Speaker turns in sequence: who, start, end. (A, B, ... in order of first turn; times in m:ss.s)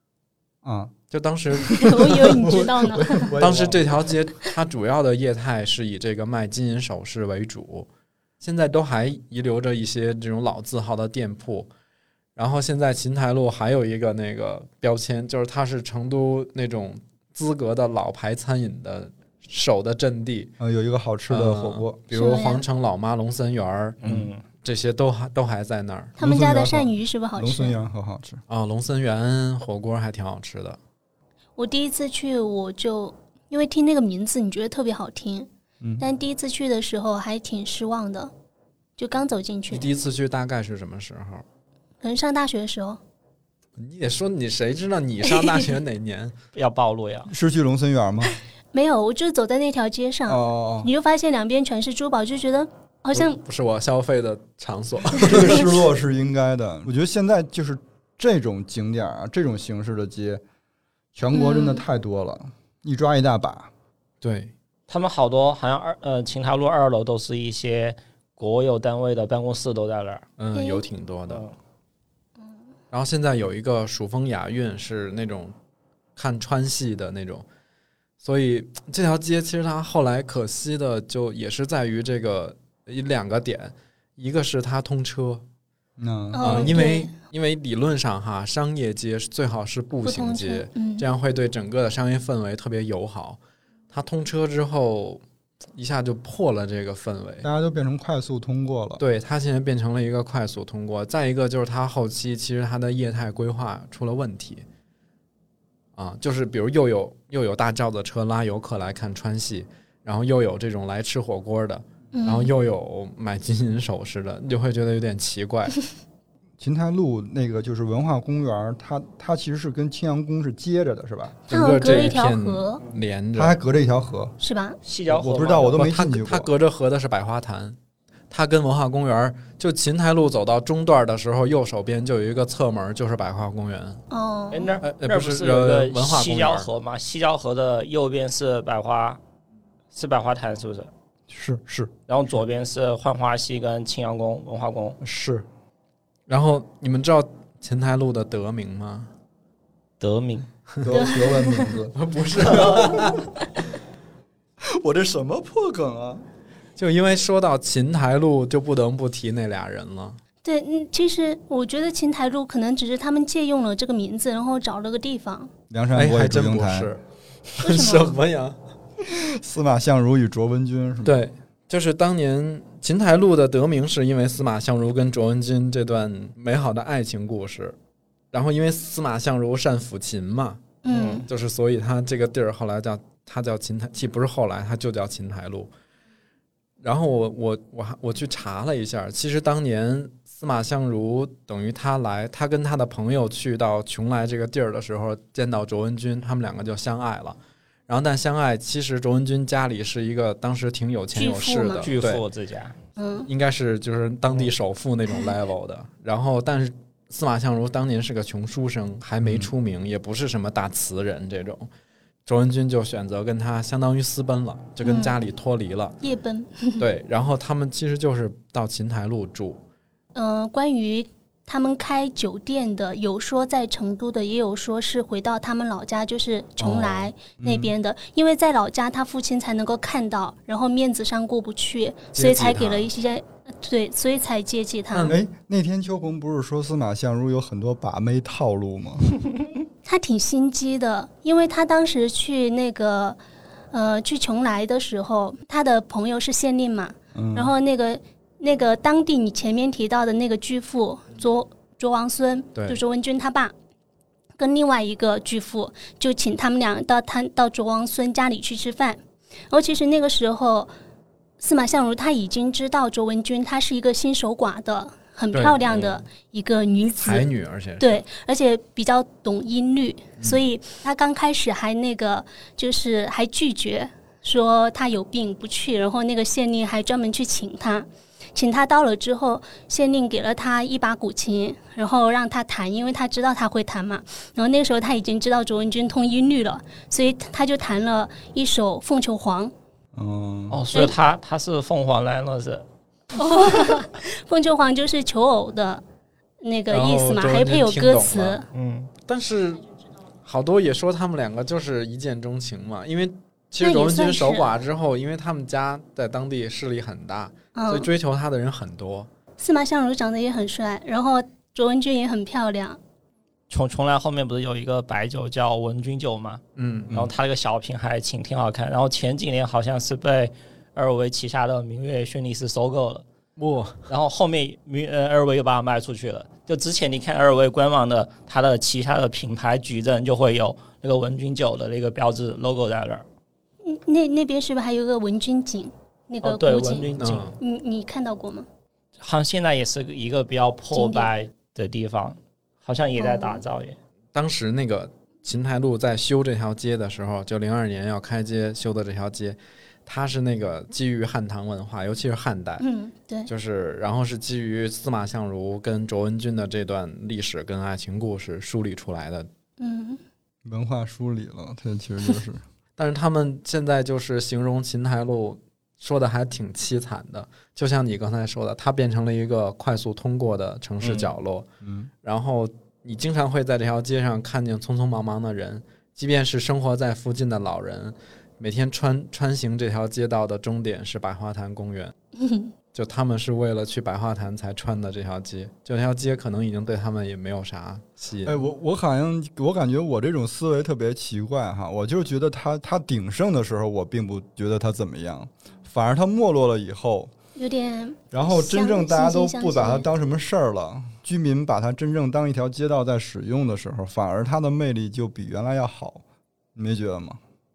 0:00.6-0:00.9 A
0:01.1-0:02.5 B
0:01.7-0:03.3 C
0:01.8-0:04.2 A
0:03.4-0:07.9 B
0:08.4-0:11.7 B
0:12.4-0:20.5 B
0:20.6-0:22.0 A
0:21.3-0:24.1 B
0:22.1-0:22.6 C
0:24.0-0:24.4 D
0:24.6-0:26.2 B
0:26.2-0:27.8 C
0:26.2-0:28.4 A
0:28.5-0:30.8 B
0:31.6-0:38.3 C
0:39.0-0:39.9 C
0:39.7-0:41.4 B
0:42.0-0:43.0 C
0:43.8-0:46.3 B
0:46.5-0:47.3 D
0:47.3-0:48.3 A
0:48.7-0:53.4 C
0:50.3-0:50.9 A
0:53.1-0:55.8 B
0:55.2-1:00.4 A
1:01.1-1:03.7 A
1:01.3-1:01.8 C
1:04.2-1:04.5 B
1:04.9-1:10.2 D
1:10.4-1:11.4 B
1:10.5-1:10.8 C
1:11.3-1:11.5 D
1:12.9-1:15.5 B
1:16.2-1:17.4 B
1:18.2-1:25.4 B
1:26.0-1:26.8 A
1:26.3-1:27.1 C
1:26.4-1:33.4 B
1:30.0-1:31.0 C
1:33.9-1:35.2 B
1:35.7-1:37.5 B
1:37.4-1:39.0 A
1:39.0-1:44.6 B
1:46.0-1:55.8 B
1:52.1-1:52.5 C
1:56.6-2:01.4 A
2:01.5-2:03.6 B
2:01.5-2:02.8 C
2:03.4-2:04.4 A
2:04.4-2:04.8 C
2:04.8-2:05.8 D
2:05.1-2:06.5 A
2:05.7-2:07.8 B
2:08.3-2:14.0 B
2:14.1-2:14.7 C
2:14.5-2:19.2 D
2:14.8-2:16.7 B
2:19.9-2:20.9 D
2:21.3-2:21.9 A
2:22.1-2:25.0 D
2:25.0-2:25.4 A
2:26.3-2:29.1 B
2:30.0-2:30.5 D
2:30.8-2:33.2 A
2:30.9-2:31.7 C
2:31.9-2:33.3 B
2:32.5-2:32.9 D
2:34.6-2:36.2 A
2:36.8-2:40.2 B
2:40.4-2:45.5 C
2:45.7-2:46.9 A
2:45.9-2:47.0 B
2:47.6-2:48.6 B
2:47.6-2:48.2 C
2:49.0-2:51.2 A
2:51.0-2:57.8 B
2:58.3-3:05.7 B
3:00.8-3:01.3 C
3:00.9-3:01.2 D
3:06.8-3:17.4 B
3:17.9-3:22.2 B
3:21.1-3:21.9 C
3:21.8-3:22.8 D
3:23.0-3:23.3 C
3:23.3-3:31.7 B
3:29.2-3:29.5 A
3:32.2-3:36.0 B
3:34.8-3:35.1 C
3:36.0-3:36.8 C
3:36.8-3:39.6 B
3:40.1-3:55.1 C
3:46.6-3:47.1 B
3:47.4-3:47.7 A
3:52.1-3:52.9 B
3:54.9-3:55.2 B
3:55.1-3:59.1 A
3:59.8-4:03.2 C
4:03.7-4:13.5 C
4:07.1-4:07.5 A
4:14.4-4:20.7 C
4:21.4-4:27.3 C
4:25.3-4:26.0 B
4:27.0-4:28.0 B
4:27.8-4:49.5 C
4:49.9-4:50.6 A
4:50.5-4:52.6 D
4:53.1-4:55.8 C
4:56.4-4:58.5 C
4:56.7-4:58.4 B
4:58.5-4:58.9 D
4:59.0-4:59.6 B
5:00.2-5:09.1 B
5:03.6-5:04.5 C
5:07.5-5:07.9 C
5:09.4-5:12.8 C
5:13.5-5:23.0 D
5:16.6-5:17.0 B
5:23.4-5:23.9 B
5:23.9-5:33.0 D
5:33.6-5:38.5 C
5:36.2-5:37.3 D
5:37.0-5:37.4 B
5:39.0-5:43.8 D
5:40.7-5:41.1 C
5:43.0-5:43.4 C
5:44.1-5:52.6 B
5:52.6-5:53.3 C
5:53.3-5:59.3 B
5:59.6-6:00.0 C
6:00.4-6:02.4 A
6:02.8-6:11.4 B
6:11.6-6:11.9 A
6:12.0-6:21.9 B
6:22.2-6:22.5 C
6:22.7-6:28.4 B
6:28.2-6:37.1 A
6:37.4-6:39.9 C
6:38.1-6:46.0 A
6:46.5-6:47.2 A